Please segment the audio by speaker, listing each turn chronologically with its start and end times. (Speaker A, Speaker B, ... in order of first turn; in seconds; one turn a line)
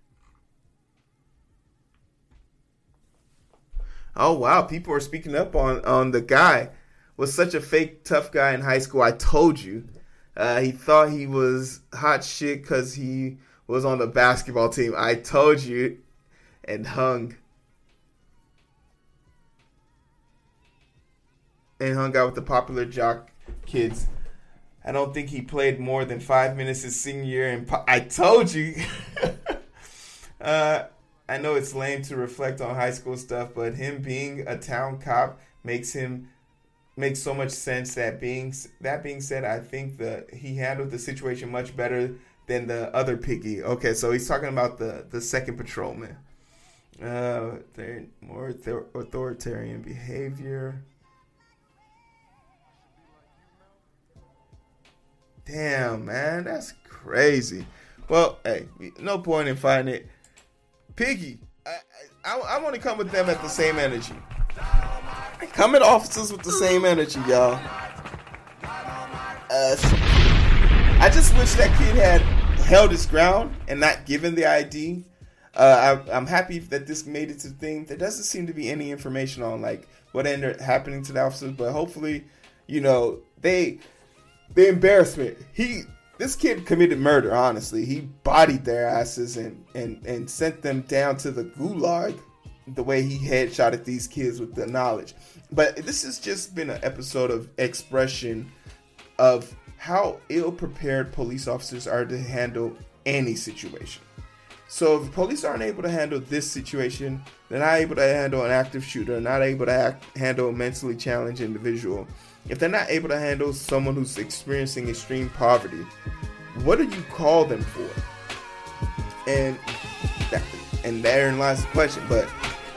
Speaker A: 4.2-16.0
Speaker A: 16.6-17.4
Speaker A: 21.8-24.1
Speaker A: 24.8-29.6
Speaker A: 30.4-36.3
Speaker A: 37.0-46.2
Speaker A: 47.0-50.9
Speaker A: 55.5-60.1
Speaker A: 61.0-64.3
Speaker A: 65.4-67.7
Speaker A: 69.5-70.2
Speaker A: 71.0-83.8
Speaker A: 84.5-98.5
Speaker A: 99.2-104.1
Speaker A: 104.7-115.9
Speaker A: 116.5-118.0
Speaker A: 119.3-119.7
Speaker A: 120.3-122.3